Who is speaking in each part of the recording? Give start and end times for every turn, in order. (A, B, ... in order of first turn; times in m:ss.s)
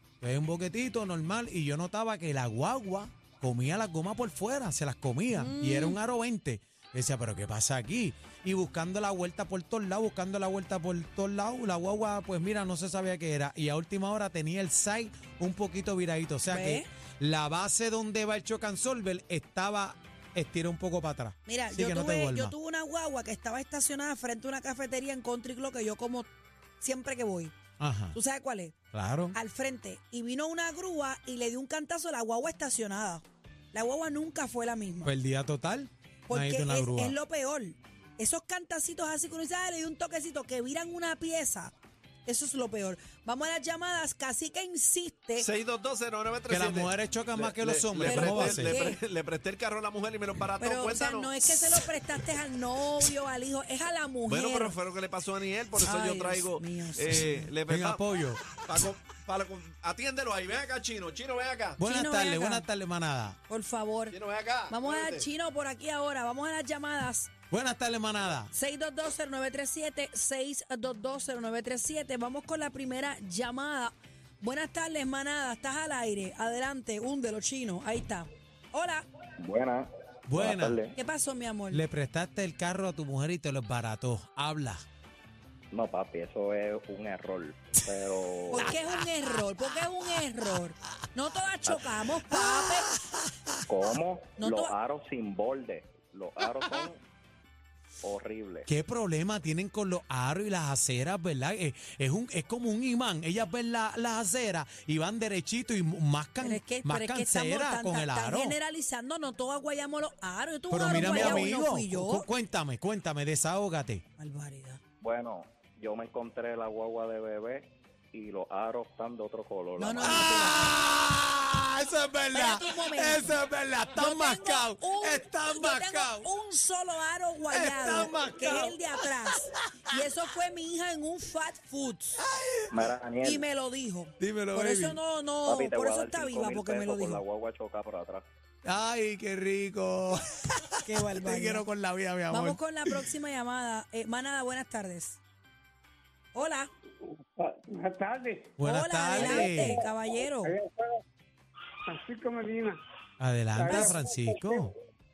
0:00.2-0:22.5 A
0:05.3-0:06.0 B
0:16.5-0:16.9 B
0:21.5-0:26.3 B
0:26.8-0:27.6 B
0:27.8-0:28.2 A
0:28.1-0:28.7 B
0:28.9-0:29.4 A
0:29.3-0:35.1 B
0:35.0-0:37.2 A
0:36.3-0:41.7 B
0:42.2-0:45.5 B
0:45.4-0:51.8 C
0:46.5-0:48.8 A
0:48.0-0:49.0 B
0:50.6-0:54.8 B
0:54.3-1:01.8 C
0:55.8-0:57.5 B
0:57.6-0:58.4 A
1:01.8-1:03.4 A
1:01.8-1:02.7 B
1:03.5-1:07.3 B
1:04.1-1:05.2 C
1:07.5-1:08.5 A
1:08.5-1:19.0 B
1:19.4-1:21.0 D
1:20.3-1:20.8 A
1:20.9-1:21.8 B
1:21.7-1:24.8 A
1:25.7-1:28.7 D
1:28.5-1:33.0 B
1:33.7-1:37.0 D
1:34.4-1:34.7 B
1:38.0-1:38.7 D
1:38.7-1:48.6 A
1:46.4-1:52.3 B
1:50.7-1:54.0 A
1:51.0-1:51.4 D
1:54.2-1:54.8 B
1:55.0-2:00.4 D
1:59.8-2:00.8 B
2:00.0-2:06.3 A
2:02.3-2:03.3 B
2:03.9-2:12.2 B
2:07.5-2:09.3 A
2:12.2-2:12.7 A
2:12.7-2:13.4 D
2:13.2-2:17.2 B
2:14.2-2:15.0 A
2:15.4-2:18.2 D
2:18.6-2:22.9 A
2:20.8-2:21.7 B
2:22.3-2:25.2 B
2:26.3-2:26.7 B
2:27.4-2:28.5 E
2:28.6-2:29.8 A
2:28.6-2:30.6 B
2:30.4-2:30.9 E
2:31.9-2:32.8 E
2:33.2-2:34.7 A
2:33.6-2:34.0 E